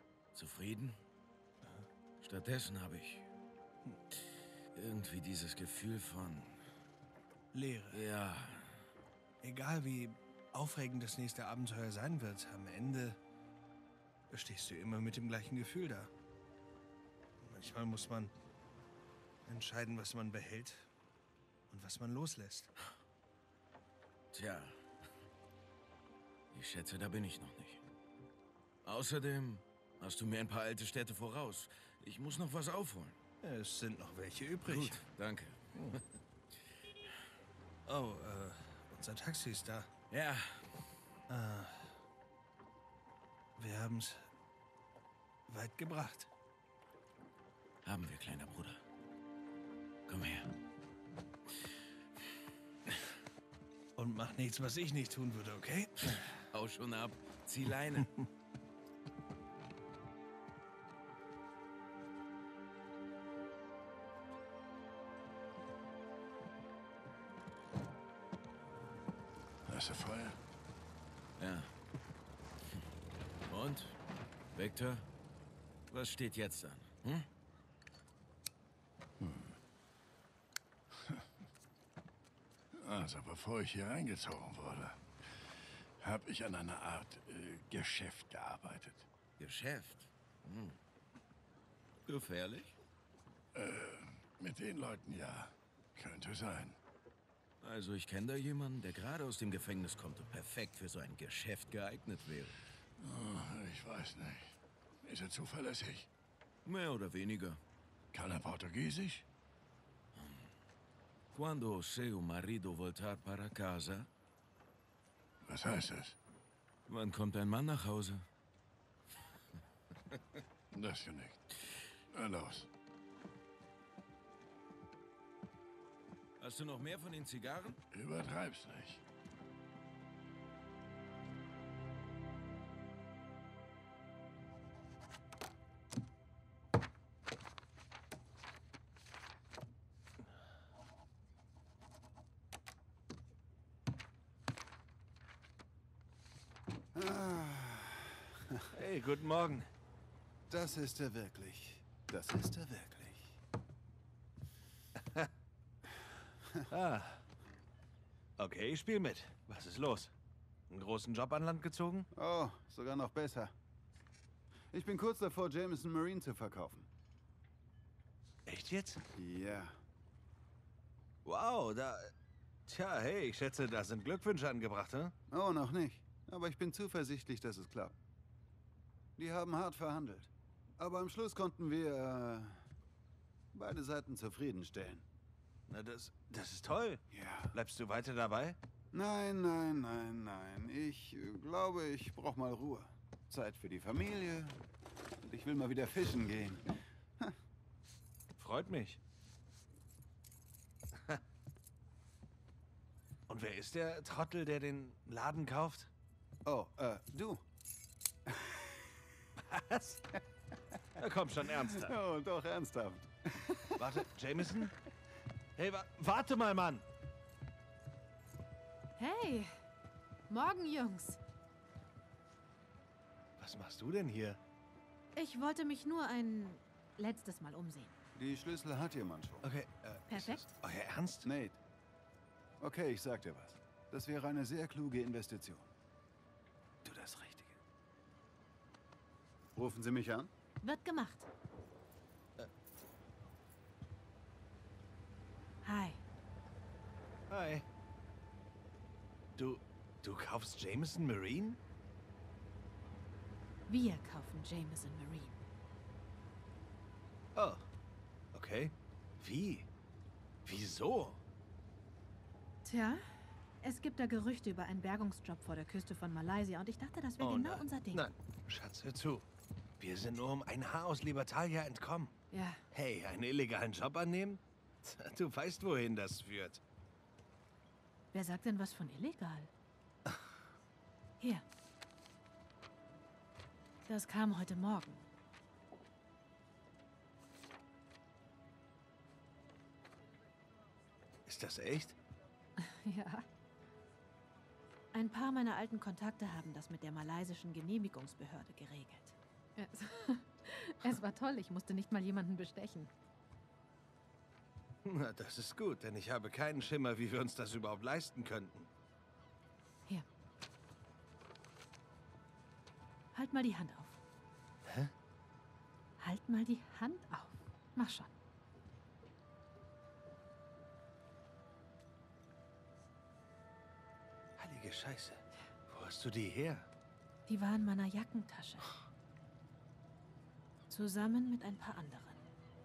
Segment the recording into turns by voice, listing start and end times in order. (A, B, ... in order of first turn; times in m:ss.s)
0:00.3-0:01.0 A
0:01.6-0:01.9 B
0:02.2-0:03.2 A
0:04.8-0:06.6 A
0:07.5-0:08.1 B
0:07.9-0:08.8 A
0:09.4-0:13.2 B
0:14.3-0:16.1 B
0:17.4-0:18.3 B
0:19.5-0:20.9 B
0:21.7-0:22.7 B
0:24.3-0:24.8 A
0:26.5-0:27.8 A
0:28.8-0:33.2 A
0:33.4-0:35.0 B
0:34.6-0:36.0 A
0:35.7-0:36.0 B
0:37.9-0:39.9 B
0:40.1-0:40.7 A
0:41.3-0:42.0 B
0:43.6-0:44.3 B
0:45.5-0:46.3 B
0:47.8-0:48.8 A
0:50.1-0:50.5 A
0:54.0-0:56.3 B
0:56.5-0:58.1 A
0:58.0-0:58.2 B
1:09.7-1:10.4 C
1:11.4-1:11.7 A
1:13.5-1:14.0 A
1:14.6-1:15.0 A
1:15.9-1:17.3 A
1:19.2-1:19.6 C
1:22.8-1:29.1 C
1:29.4-1:30.8 A
1:32.1-1:32.7 A
1:33.5-1:36.8 C
1:37.6-1:42.5 A
1:43.0-1:46.1 C
1:46.7-1:47.6 A
1:48.1-1:49.2 C
1:50.2-1:50.4 A
1:51.3-1:54.1 A
1:55.4-1:56.2 C
1:56.9-1:58.3 A
2:00.7-2:01.5 C
2:02.1-2:02.7 C
2:06.4-2:07.8 A
2:07.9-2:09.0 C
2:26.9-2:28.6 D
2:28.7-2:29.7 B
2:30.5-2:33.2 D
2:36.7-2:37.2 B
2:38.4-2:40.1 B
2:40.7-2:42.1 B
2:42.1-2:43.5 D
2:44.7-2:46.9 D
2:48.5-2:49.0 B
2:49.2-2:49.8 D
2:51.2-2:52.1 B
2:52.7-2:55.1 B
2:55.3-2:58.0 D
2:59.2-3:02.6 D
3:03.5-3:05.0 D
3:05.7-3:08.6 B
3:07.1-3:07.6 D
3:08.9-3:14.6 D
3:15.2-3:17.4 D
3:18.4-3:19.0 B
3:23.3-3:25.9 B
3:26.4-3:27.4 D
3:29.5-3:30.0 B
3:31.0-3:32.0 B
3:31.6-3:34.0 D
3:33.8-3:34.7 B
3:35.6-3:36.9 B
3:39.0-3:39.5 E
3:40.3-3:41.2 E
3:43.4-3:44.4 B
3:45.2-3:48.0 E
3:48.2-3:49.5 D
3:49.4-3:51.3 B
3:50.1-3:50.5 E
3:51.2-3:51.6 D
3:52.6-3:55.7 D
3:56.8-3:57.6 B
3:59.6-4:00.3 D
4:00.6-4:01.3 E
4:05.6-4:06.0 E
4:07.3-4:07.7 B
4:09.4-4:11.6 B
4:13.7-4:15.4 E
4:17.4-4:17.6 B
4:18.3-4:19.7 B
4:20.4-4:21.2 B
4:22.6-4:23.0 E
4:23.6-4:28.0 E
4:27.2-4:29.3 B
4:29.8-4:32.2 B
4:32.3-4:32.6 E
4:32.7-4:36.6 B
4:38.1-4:39.5 E
4:43.8-4:45.0 E
4:51.3-4:52.0 B
4:52.6-4:53.3 E
4:54.9-5:02.9 E
5:04.8-5:08.7 B
5:13.1-5:14.0 E
5:14.6-5:14.9 B
5:16.0-5:18.1 E
5:24.4-5:26.7 B
5:27.3-5:28.7 E
5:30.7-5:32.3 E